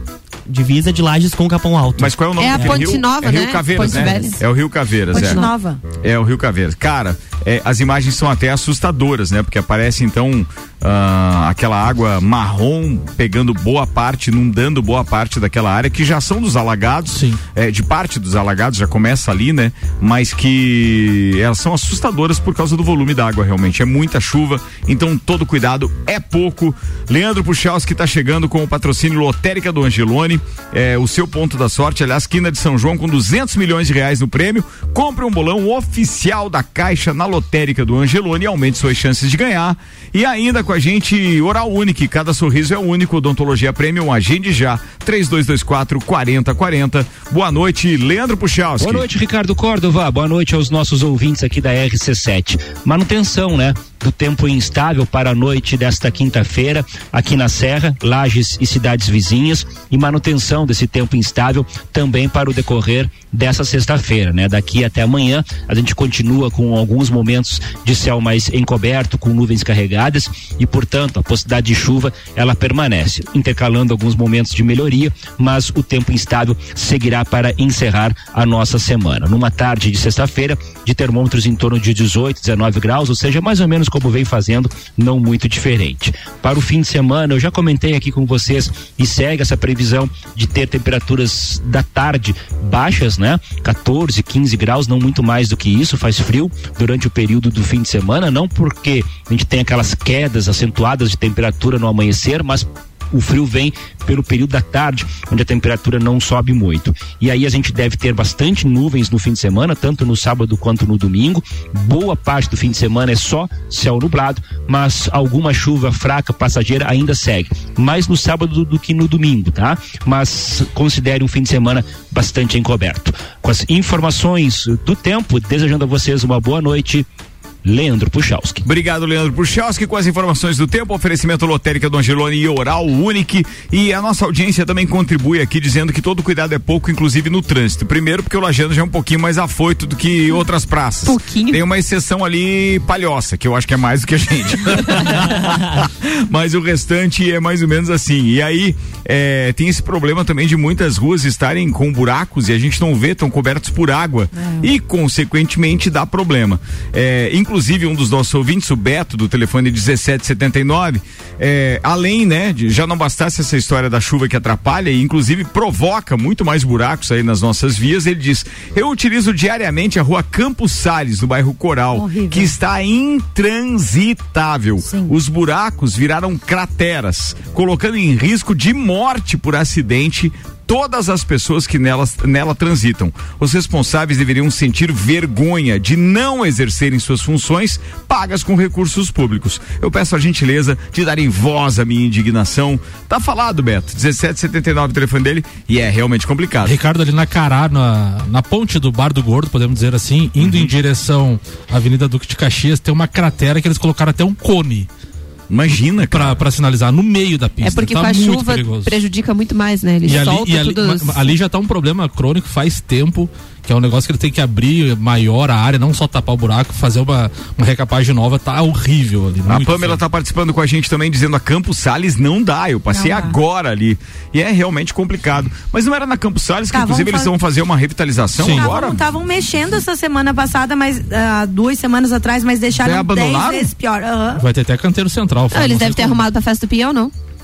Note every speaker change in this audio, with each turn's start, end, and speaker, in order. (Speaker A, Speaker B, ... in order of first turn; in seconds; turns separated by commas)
Speaker A: 0.5-2.9, Speaker B: 2.0-5.4, Speaker C: 2.4-4.4, Speaker D: 5.1-5.8, Speaker C: 5.1-5.5, Speaker B: 5.9-49.0, Speaker E: 17.1-17.4, Speaker F: 48.8-127.1, Speaker F: 127.6-128.7, Speaker B: 128.6-196.8, Speaker C: 141.0-141.6, Speaker D: 154.4-154.7, Speaker D: 171.9-172.5, Speaker D: 174.8-175.1, Speaker E: 196.6-204.9, Speaker B: 200.4-200.7, Speaker B: 205.5-206.4, Speaker E: 206.1-208.9, Speaker C: 207.6-211.3, Speaker E: 210.0-220.0, Speaker B: 219.5-229.0, Speaker D: 222.9-223.3, Speaker D: 226.7-227.3, Speaker E: 228.4-228.7, Speaker D: 228.4-234.4, Speaker B: 232.8-233.7, Speaker E: 234.4-236.2, Speaker C: 235.5-237.1